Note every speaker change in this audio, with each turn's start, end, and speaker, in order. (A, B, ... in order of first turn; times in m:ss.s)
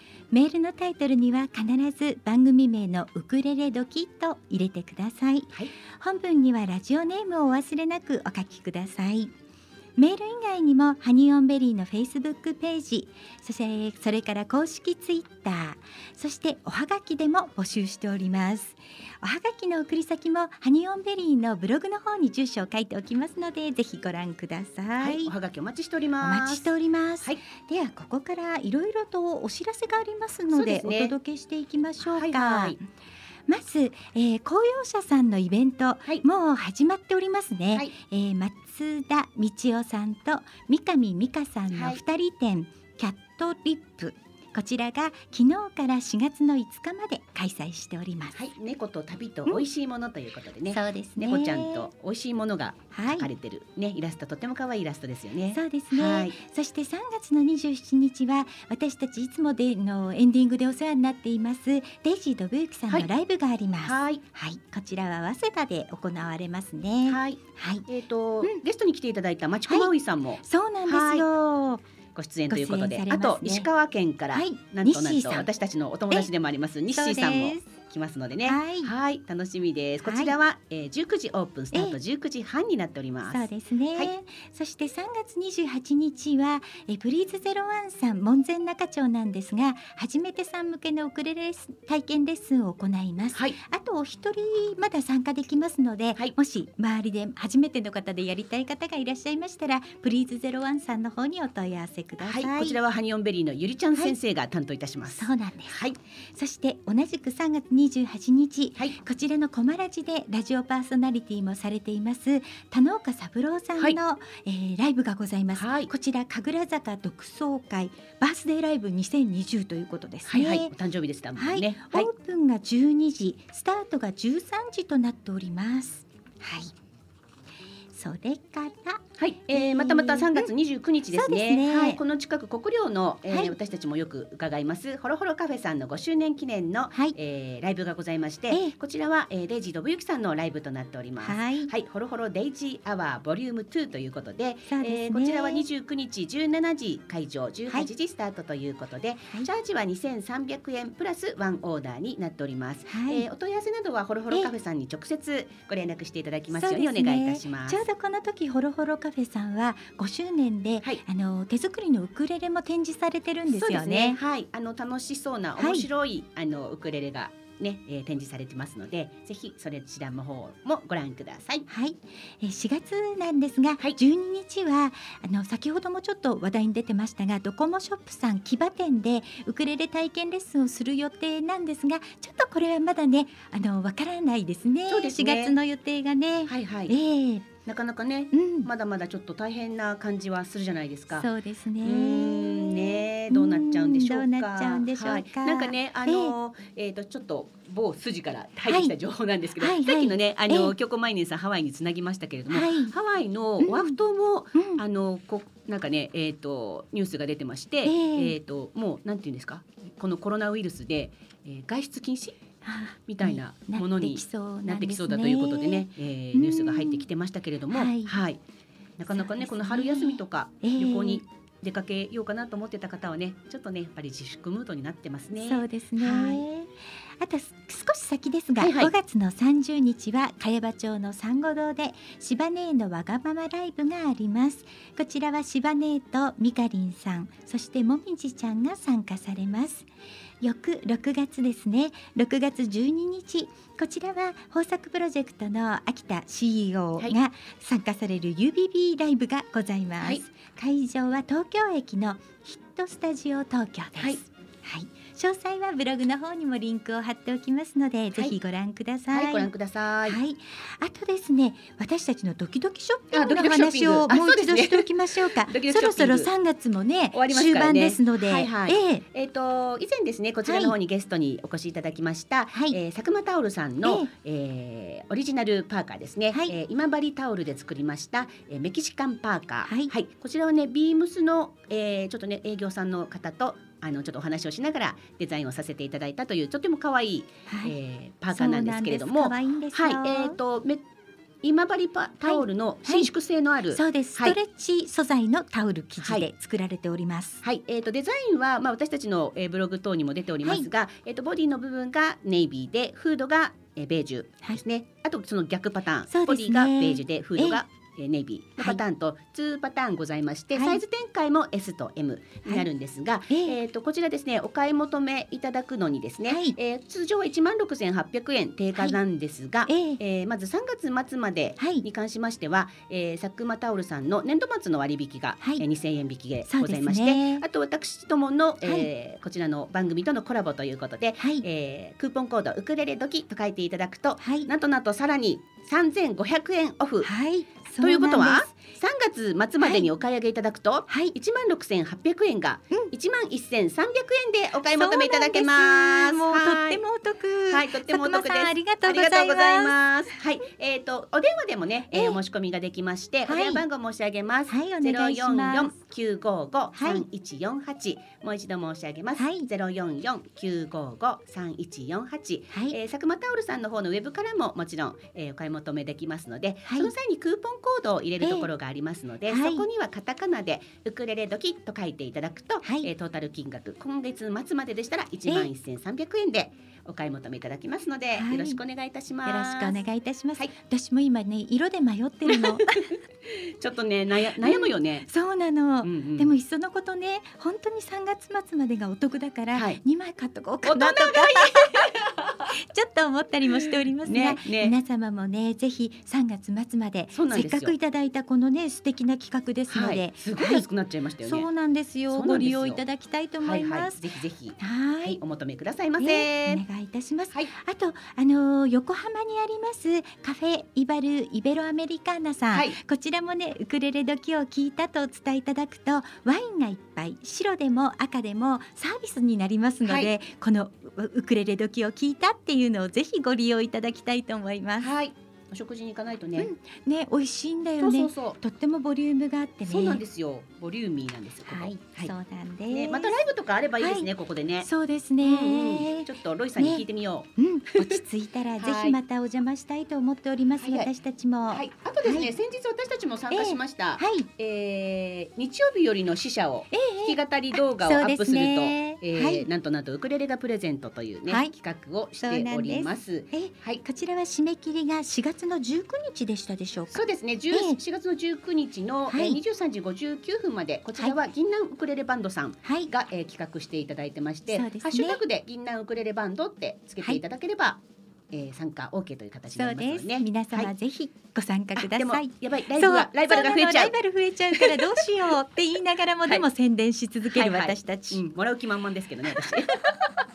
0:00.3-0:09.3 A
0:10.0-0:25.3 A
0:25.0-0:26.6 B
0:26.2-0:32.8 A
0:30.5-0:31.1 B
0:32.0-0:32.8 B
0:33.5-0:48.4 A
0:41.7-0:42.0 B
0:48.4-0:56.3 B
0:50.7-0:51.9 A
0:52.9-0:53.3 A
0:55.5-1:07.8 A
1:03.8-1:04.2 B
1:07.1-1:11.3 B
1:10.4-1:11.8 A
1:12.1-1:23.4 B
1:12.5-1:13.6 A
1:14.3-1:15.5 A
1:16.9-1:17.7 A
1:18.4-1:18.9 A
1:20.0-1:20.3 A
1:23.3-1:42.8 A
1:42.2-1:46.0 B
1:45.1-1:45.8 A
1:46.3-2:00.7 A
1:55.6-1:55.9 B
2:00.3-2:02.1 B
2:01.4-2:06.7 A
2:07.9-2:09.0 A
2:09.2-2:37.8 B
2:09.5-2:10.5 A
2:11.1-2:12.0 A
2:13.3-2:13.5 A
2:21.2-2:21.7 A
2:24.7-2:25.6 A
2:32.9-2:33.3 A
2:36.6-2:44.2 A
2:43.5-2:51.6 B
2:45.6-2:45.9 A
2:51.7-3:07.4 A
3:04.9-3:05.5 B
3:06.5-3:06.9 B
3:07.6-3:11.2 B
3:08.3-3:08.7 A
3:11.1-3:16.3 A
3:11.8-3:32.4 B
3:18.6-3:18.9 A
3:19.6-3:20.7 A
3:22.5-3:22.9 A
3:23.6-3:24.0 A
3:24.5-3:24.8 A
3:27.8-3:28.4 A
3:32.6-3:37.0 A
3:33.1-3:38.4 B
3:37.7-3:38.1 A
3:39.0-3:46.4 B
3:39.1-3:41.2 A
3:45.4-3:59.8 A
3:48.6-3:48.9 B
4:00.4-4:19.5 A
4:19.1-4:20.2 B
4:20.0-4:29.0 A
4:23.1-4:26.3 B
4:27.1-4:50.8 B
4:30.4-4:30.7 A
4:33.8-4:34.1 A
4:47.5-4:47.7 A
4:48.3-4:50.4 A
4:51.4-4:54.4 B
4:52.2-4:53.1 A
4:53.7-4:57.4 A
4:57.4-5:37.1 B
5:06.1-5:07.6 A
5:10.5-5:10.8 A
5:13.3-5:13.6 A
5:16.3-5:16.6 A
5:19.7-5:20.0 A
5:21.6-5:21.8 A
5:25.4-5:25.6 A
5:26.5-5:27.4 A
5:31.2-5:31.4 A
5:34.2-5:34.5 A
5:37.0-5:38.5 A
5:37.8-5:46.8 B
5:39.6-5:39.9 A
5:40.9-5:41.1 A
5:44.8-5:49.8 A
5:47.5-6:19.8 B
5:51.9-5:52.2 A
5:53.2-5:53.6 A
5:54.5-5:55.7 A
5:56.7-5:57.0 A
5:59.2-5:59.5 A
6:06.6-6:06.9 A
6:08.2-6:08.5 A
6:09.3-6:09.6 A
6:12.6-6:12.9 A
6:18.1-6:18.6 A
6:19.2-6:22.8 A
6:22.3-6:22.9 B
6:23.6-6:25.1 B
6:24.4-6:31.9 A
6:25.8-6:26.3 B
6:29.5-6:29.8 B
6:30.6-6:32.5 B
6:32.5-6:40.6 A
6:34.0-6:34.8 B
6:37.1-6:37.7 B
6:39.7-6:41.5 B
6:41.2-6:44.0 A
6:42.1-6:42.8 B
6:43.4-6:46.6 B
6:44.6-6:45.2 A
6:46.0-7:04.9 A
7:04.8-7:06.5 B
7:06.4-7:10.0 A
7:07.8-7:08.4 B
7:09.7-7:12.1 B
7:11.5-7:13.2 A
7:12.7-7:14.7 B
7:13.8-7:14.1 A
7:14.6-7:16.8 A
7:15.2-7:18.0 B
7:17.4-7:22.3 A
7:18.6-7:19.0 B
7:20.6-7:20.9 B
7:21.5-7:33.8 B
7:23.3-7:24.3 A
7:26.7-7:29.5 A
7:32.2-7:37.0 A
7:36.9-7:47.8 B
7:37.5-7:37.8 A
7:39.1-7:39.4 A
7:42.6-7:42.9 A
7:44.5-7:45.2 A
7:48.3-7:50.7 B
7:49.5-7:58.2 A
7:51.8-7:53.9 B
7:54.5-7:54.9 B
7:57.3-7:59.7 B